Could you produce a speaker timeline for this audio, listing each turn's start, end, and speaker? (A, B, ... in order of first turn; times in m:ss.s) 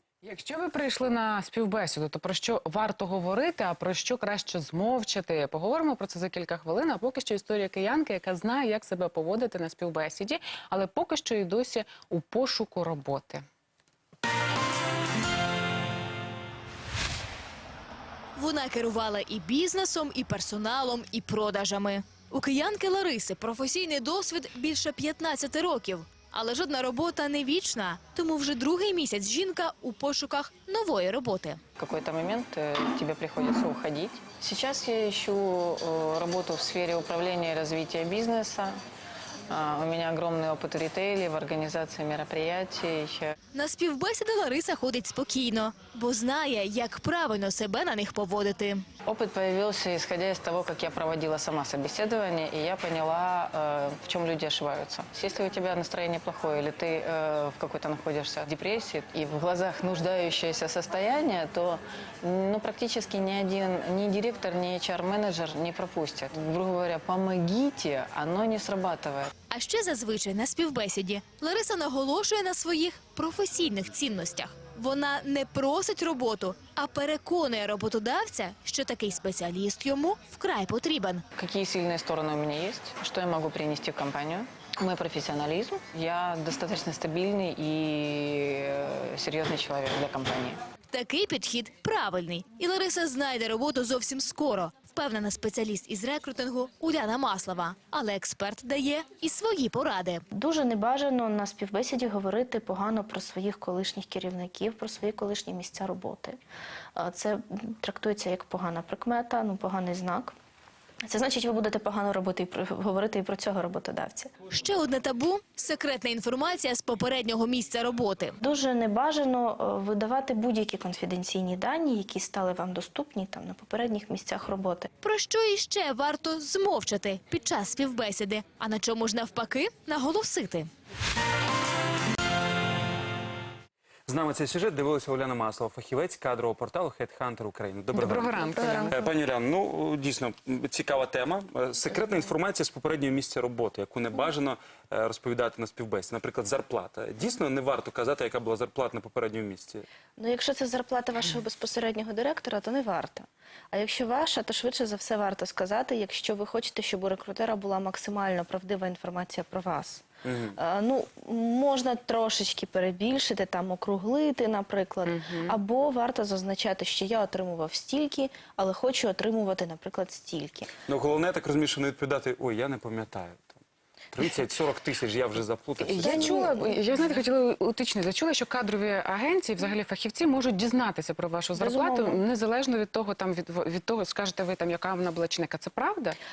0:00.2-0:13.4 A
0:18.4-0:31.6 B
0:31.8-0:38.8 C
0:39.5-0:43.4 C
0:43.5-0:48.9 B
0:49.1-1:09.3 C
1:09.5-1:21.2 B
1:21.4-1:30.6 C
1:30.9-1:40.2 B
1:40.3-1:46.4 D
1:47.0-1:50.3 D
1:51.0-1:54.3 D
1:54.5-1:58.3 B
1:58.4-2:04.9 D
2:05.0-2:10.7 B
2:14.1-2:29.8 E
2:17.9-2:19.0 A
2:18.4-2:19.1 D
2:30.2-2:50.7 D
2:40.2-2:40.6 E
2:45.1-2:45.5 A
2:50.9-2:53.6 E
2:54.1-2:56.4 E
2:55.8-3:06.2 A
2:55.9-2:56.9 D
3:01.6-3:02.2 D